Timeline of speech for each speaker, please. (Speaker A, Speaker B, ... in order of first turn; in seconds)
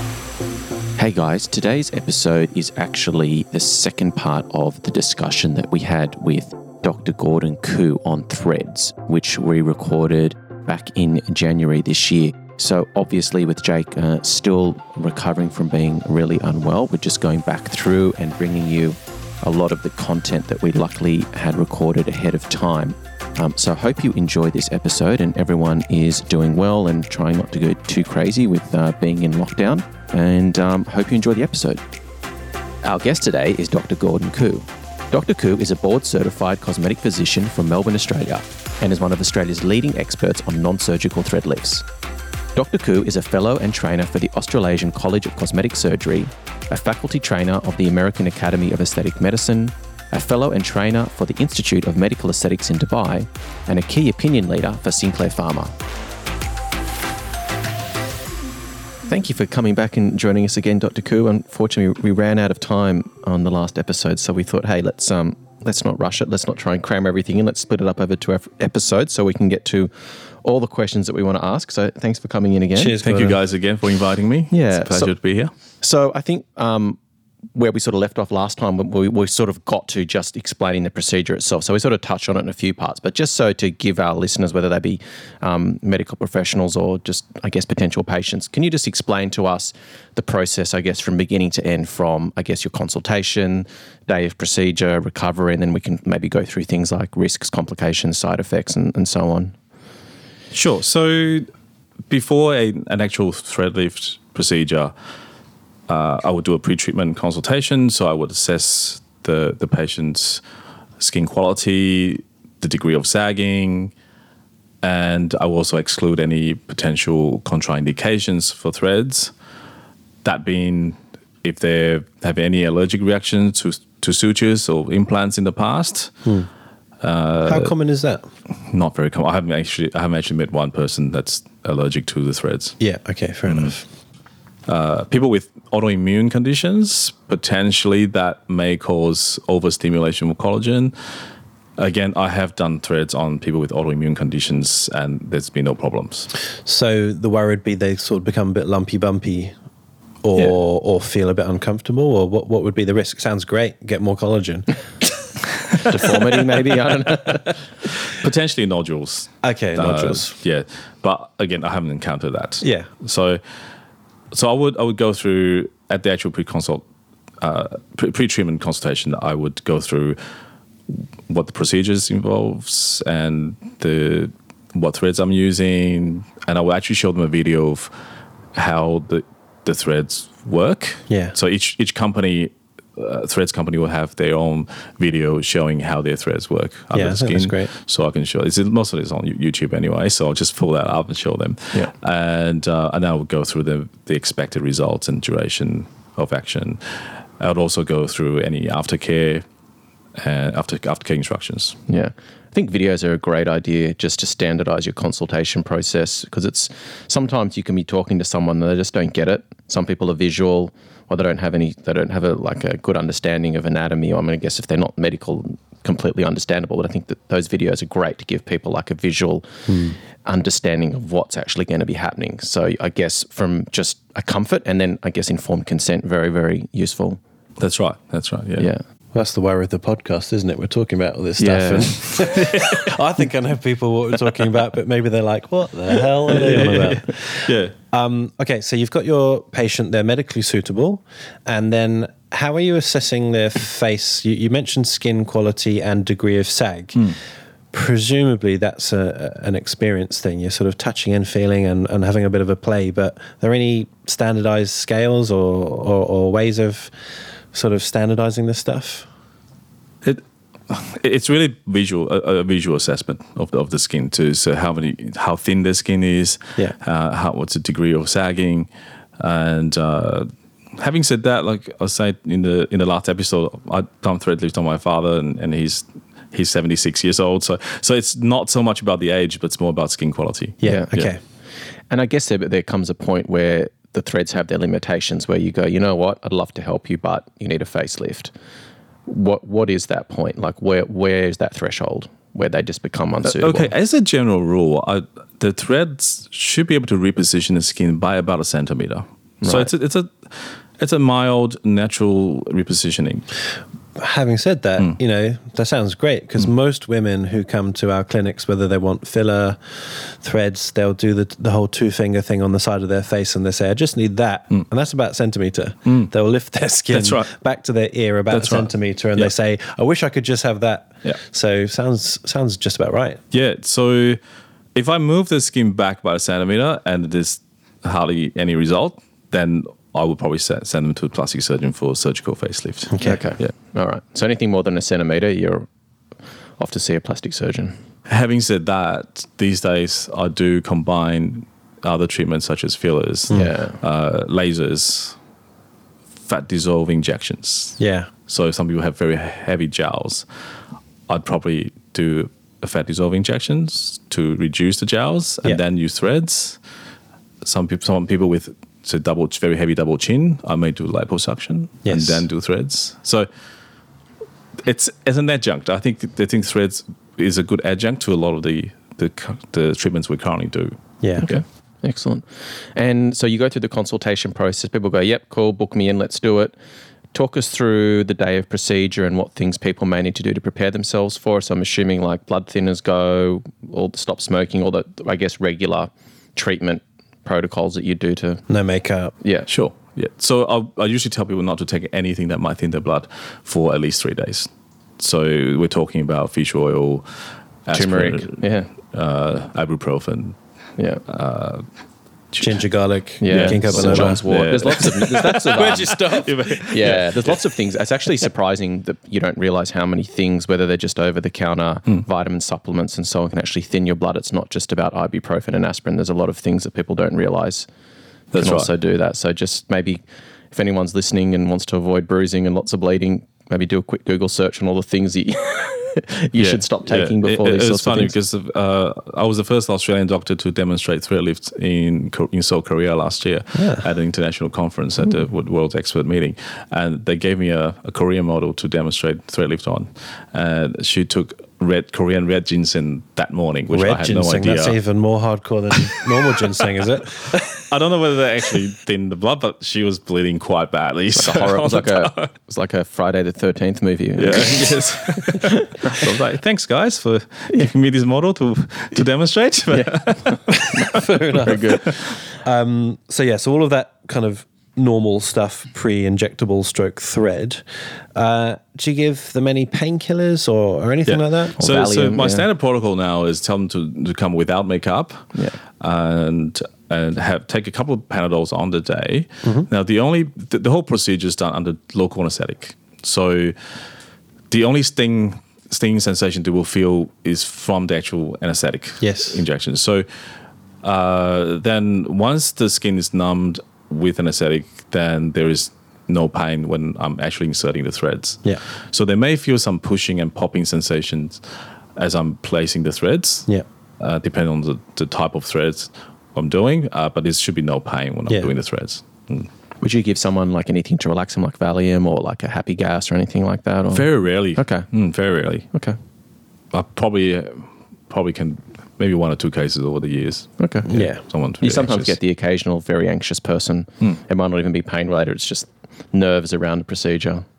Speaker A: 1.0-31.8, 32.8-41.9, 42.5-55.7, 59.1-73.0, 74.5-75.1, 75.8-77.0, 77.5-99.5, 155.8-157.6, 201.9-219.7, 220.2-227.2, 231.4-232.0, 280.7-280.9, 281.9-288.3, 289.1-293.7, 299.4-299.7, 333.0-335.7, 336.6-337.8, 343.3-343.8, 371.2-376.6, 377.1-388.5, 389.2-389.5, 397.7-398.7, 400.8-401.0, 403.2-417.7, 418.3-428.1, 451.2-456.1, 459.7-462.1, 471.6-472.4, 509.8-514.9, 520.6-520.9, 521.6-527.5
Speaker B: 72.8-73.4, 127.5-128.3, 132.8-133.8, 146.6-149.5, 150.2-154.7, 159.4-160.4, 162.6-162.9, 181.1-181.3, 186.9-187.7, 219.7-220.0, 229.1-247.1, 247.7-256.9, 257.5-259.1, 280.6-281.2, 304.0-323.2, 332.9-333.2, 347.8-348.1, 361.8-362.2, 371.0-371.3, 388.5-389.1, 402.4-406.7, 433.6-433.8, 443.7-447.5, 460.6-471.6, 489.0-489.4, 520.9-521.2
Speaker C: 73.0-75.5, 100.5-101.5, 102.1-105.0, 105.9-110.4, 111.0-113.9, 114.8-119.3, 120.2-126.2, 127.0-127.7, 128.6-132.8, 133.5-133.7, 134.7-141.2, 141.8-146.3, 158.1-163.4, 164.3-166.8, 167.4-170.2, 170.9-177.9, 178.6-199.4, 200.2-201.8, 227.6-228.7, 232.2-232.9, 236.3-237.7, 260.0-281.1, 293.2-303.2, 315.9-316.1, 316.9-317.3, 318.3-319.3, 323.3-324.2, 324.7-333.5, 338.1-345.2, 346.2-350.3, 351.1-356.6, 357.4-363.3, 364.6-371.4, 389.5-400.4, 401.1-401.7, 402.3-402.6, 403.2-407.4, 418.3-418.7, 426.4-444.8, 447.3-452.3, 454.2-461.6, 471.1-483.6, 484.5-490.2, 490.8-503.5, 504.0-509.5, 513.9-515.7, 516.7-522.1